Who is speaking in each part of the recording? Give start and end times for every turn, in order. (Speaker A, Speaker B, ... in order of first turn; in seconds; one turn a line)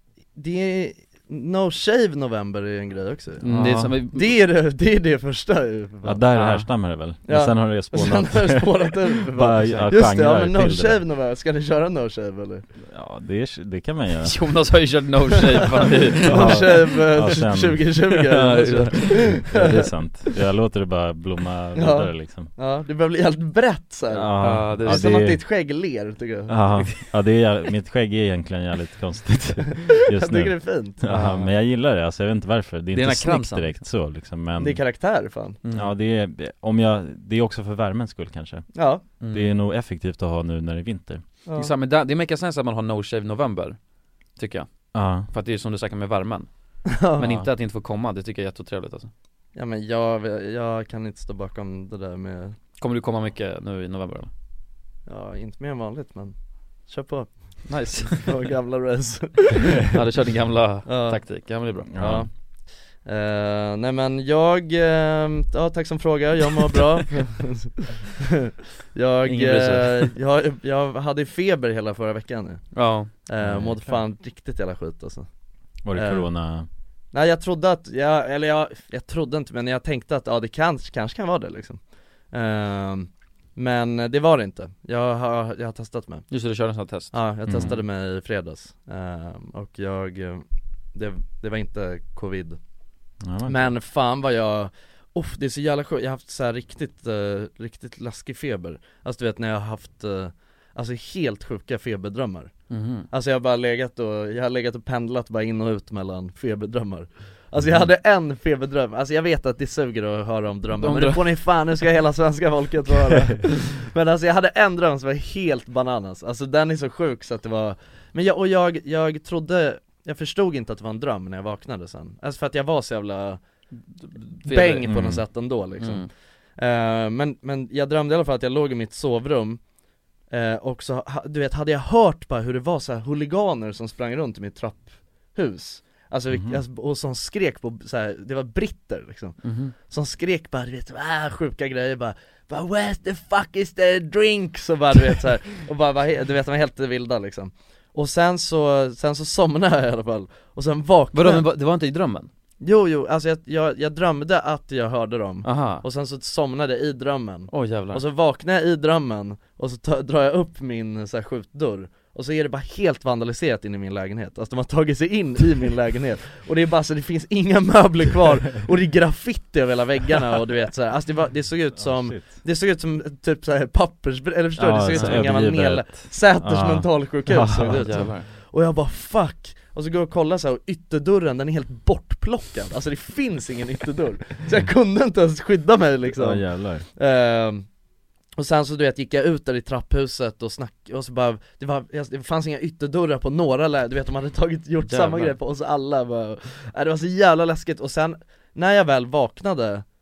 Speaker A: 0.3-6.2
Speaker B: 3.4-4.3
Speaker C: 3.5-4.0
Speaker C: 6.0-11.0
Speaker B: 6.3-6.7
Speaker A: 7.3-12.7
Speaker C: 12.9-14.4
Speaker B: 14.2-16.9
Speaker C: 16.2-22.5
Speaker A: 16.3-19.9
Speaker B: 18.9-19.4
Speaker A: 21.8-26.6
Speaker C: 24.1-25.5
Speaker B: 24.4-25.2
Speaker C: 26.5-34.8
Speaker A: 30.1-31.5
Speaker B: 32.9-33.8
Speaker A: 34.6-35.6
Speaker B: 35.6-35.9
Speaker C: 35.7-38.8
Speaker A: 38.7-39.0
Speaker B: 39.2-39.5
Speaker C: 39.3-41.2
Speaker A: 41.5-41.7
Speaker B: 41.5-43.8
Speaker B: 44.4-49.1
Speaker C: 44.9-45.3
Speaker A: 46.9-47.3
Speaker C: 47.2-47.5
Speaker A: 49.5-52.6
Speaker B: 52.8-54.3
Speaker A: 55.1-56.3
Speaker A: 56.9-59.9
Speaker B: 57.7-58.3
Speaker B: 59.9-61.9
Speaker A: 60.9-61.2
Speaker C: 61.9-62.3
Speaker A: 62.0-62.3
Speaker A: 63.0-75.3
Speaker B: 69.3-70.2
Speaker B: 72.7-73.1
Speaker C: 73.4-73.8
Speaker C: 75.8-76.7
Speaker A: 75.9-76.3
Speaker A: 77.1-81.8
Speaker A: 82.3-86.3
Speaker B: 86.3-87.8
Speaker A: 87.1-92.6
Speaker C: 87.5-87.8
Speaker C: 93.2-93.7
Speaker A: 93.5-102.5
Speaker B: 102.7-103.1
Speaker A: 103.1-123.4
Speaker B: 110.8-111.4
Speaker B: 124.0-124.9
Speaker A: 124.4-129.6
Speaker C: 124.9-125.2
Speaker B: 125.8-126.1
Speaker A: 130.3-151.4
Speaker C: 136.3-136.6
Speaker B: 139.4-139.7
Speaker B: 151.1-152.3
Speaker A: 152.6-187.7
Speaker B: 155.4-155.8
Speaker B: 157.5-158.0
Speaker C: 171.7-172.4
Speaker C: 174.6-178.1
Speaker B: 174.9-175.3
Speaker B: 177.7-178.3
Speaker C: 186.1-186.9
Speaker A: 188.4-199.8
Speaker B: 194.8-195.4